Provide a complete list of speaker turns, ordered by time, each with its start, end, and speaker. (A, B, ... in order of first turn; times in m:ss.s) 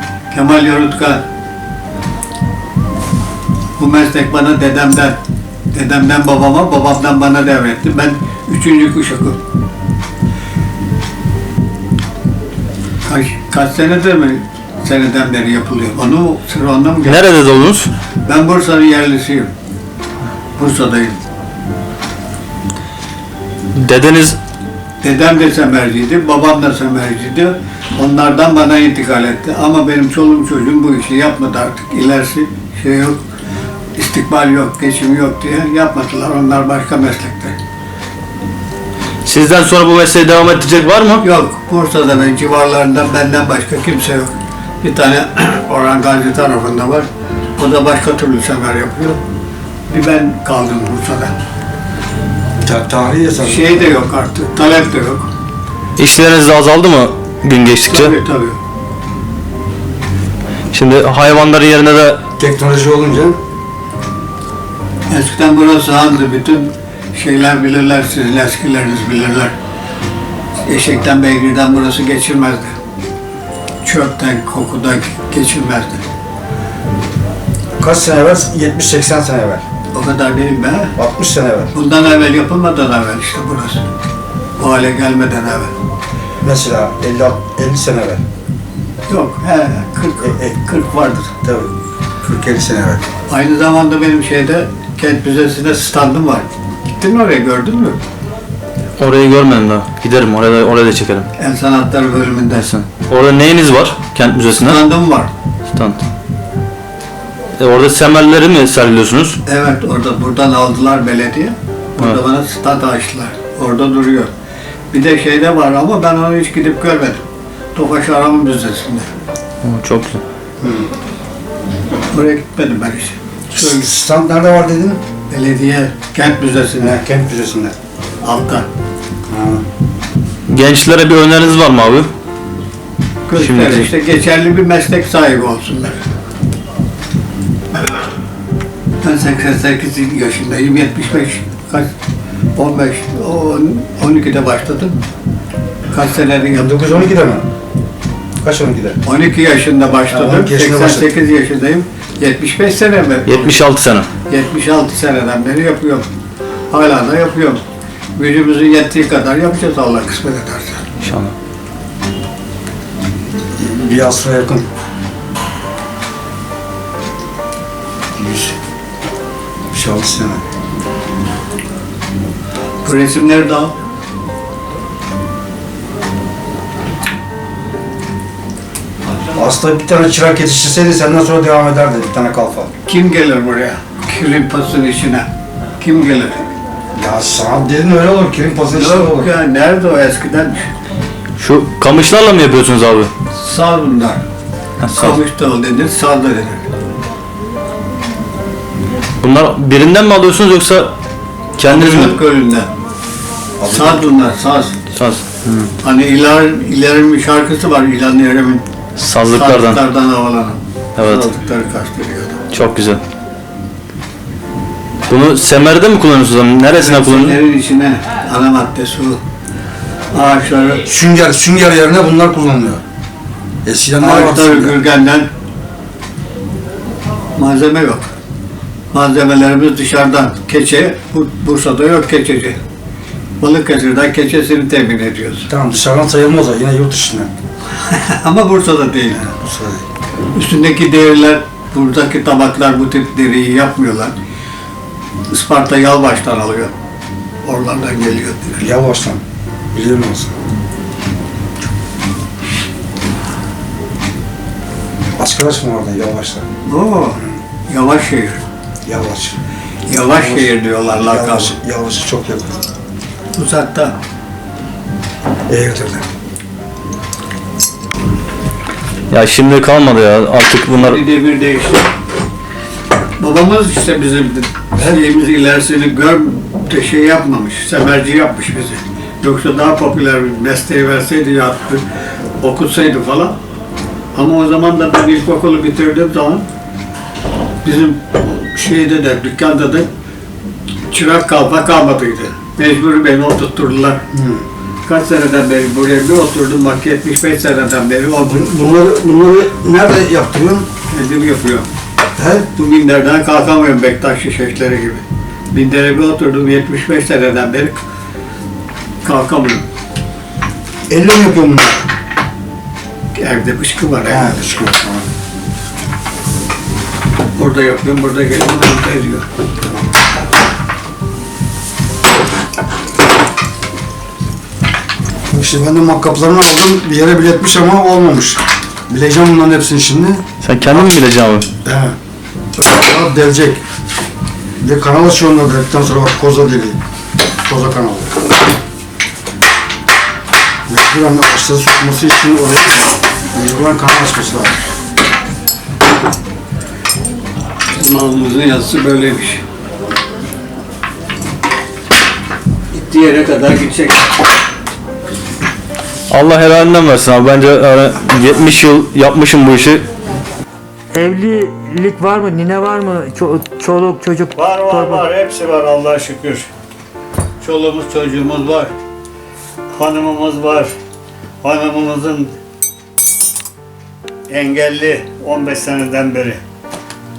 0:00.3-0:01.2 A
0:03.8-0:05.2 A
0:05.7-0:09.4 A
0:13.0-0:17.3 A
0:17.0-0:17.9 B
0:18.2-0:19.5 A
0:20.6-0:21.2 A
0:23.7-0:24.4 B
0:25.0-0:33.2 A
0:33.9-0:37.6 A
0:39.2-0:41.2 B
0:41.2-0:49.2 A
0:49.9-0:51.3 A
0:52.6-0:54.0 C
0:53.4-0:55.3 A
0:56.0-0:58.1 B
0:57.8-0:58.6 A
1:00.7-1:02.2 B
1:02.4-1:03.4 C
1:05.1-1:09.5 A
1:10.6-1:12.8 A
1:13.8-1:16.0 A
1:17.8-1:19.6 C
1:19.9-1:20.9 A
1:21.0-1:21.7 C
1:21.7-1:23.8 A
1:24.6-1:25.7 A
1:26.4-1:28.2 C
1:29.1-1:31.4 A
1:31.4-1:33.1 C
1:33.3-1:38.0 A
1:39.0-1:41.3 B
1:41.4-1:42.7 A
1:42.5-1:44.9 B
1:44.6-1:45.3 A
1:45.7-1:46.0 B
1:47.6-1:49.4 B
1:49.4-1:54.3 A
1:54.9-1:59.1 A
1:59.6-2:00.2 B
2:00.6-2:00.9 C
2:02.1-2:03.7 A
2:03.5-2:05.0 C
2:05.3-2:07.0 A
2:06.8-2:07.7 C
2:08.2-2:08.6 A
2:09.3-2:09.6 C
2:10.5-2:12.1 B
2:13.3-2:16.0 A
2:13.4-2:13.9 B
2:19.0-2:21.9 A
2:22.6-2:25.0 A
2:25.9-2:26.9 A
2:26.6-2:27.5 C
2:28.4-2:29.0 C
2:29.0-2:33.6 A
2:30.1-2:31.1 C
2:33.2-2:34.1 B
2:34.2-2:36.1 A
2:36.7-2:37.6 A
2:38.2-2:40.8 A
2:41.0-2:41.3 B
2:43.6-2:44.6 C
2:48.2-2:48.5 C
2:49.7-2:50.4 C
2:52.8-2:53.7 A
2:59.3-3:02.7 C
3:02.8-3:05.3 A
3:05.8-3:06.5 A
3:07.0-3:09.3 C
3:08.7-3:10.7 A
3:11.4-3:13.1 B
3:13.3-3:14.2 A
3:14.8-3:15.2 B
3:14.9-3:16.6 A
3:19.2-3:20.9 B
3:21.6-3:22.2 B
3:21.6-3:22.7 A
3:23.6-3:24.0 C
3:23.6-3:24.8 A
3:24.9-3:25.7 B
3:25.8-3:28.6 A
3:29.0-3:29.8 B
3:29.3-3:32.4 A
3:31.0-3:31.3 B
3:32.5-3:33.0 B
3:35.1-3:37.4 B
3:36.7-3:39.2 A
3:40.1-3:40.8 A
3:40.8-3:42.8 C
3:43.6-3:44.8 C
3:44.0-3:45.3 A
3:47.4-3:48.1 A
3:48.9-3:52.6 A
3:53.4-3:55.5 A
3:55.5-3:57.3 C
3:57.7-3:59.3 A
3:59.4-3:59.8 C
4:00.3-4:04.1 A
4:05.3-4:06.7 A
4:07.4-4:08.6 A
4:08.6-4:09.2 C
4:09.7-4:10.4 C
4:15.2-4:16.4 C
4:16.6-4:18.4 A
4:18.8-4:19.4 C
4:19.9-4:21.5 A
4:20.0-4:22.6 C
4:23.3-4:23.9 A
4:25.5-4:26.0 C
4:29.1-4:31.0 B
4:30.8-4:31.9 A
4:33.2-4:41.8 A
4:42.4-4:43.4 A
4:44.1-4:46.4 A
4:47.6-4:49.9 A
4:50.9-4:54.0 A
4:54.1-4:54.4 C
4:54.8-4:58.6 A
4:58.2-5:00.7 C
5:00.9-5:01.7 A
5:02.2-5:02.5 C
5:02.5-5:07.8 A
5:09.0-5:09.6 A
5:10.9-5:11.9 C
5:13.1-5:14.5 A
5:14.0-5:15.1 C
5:17.3-5:19.2 A
5:25.3-5:30.2 C
5:30.4-5:31.5 B
5:31.6-5:31.9 C
5:32.6-5:33.6 C
5:34.6-5:36.8 C
5:37.4-5:38.2 C
5:40.7-5:44.7 C
5:47.7-5:49.4 A
5:52.7-5:54.1 A
5:56.1-5:59.8 B
6:00.9-6:05.0 D
6:04.4-6:06.5 A
6:07.4-6:08.7 A
6:09.7-6:10.7 A
6:11.4-6:12.3 A
6:14.3-6:16.4 A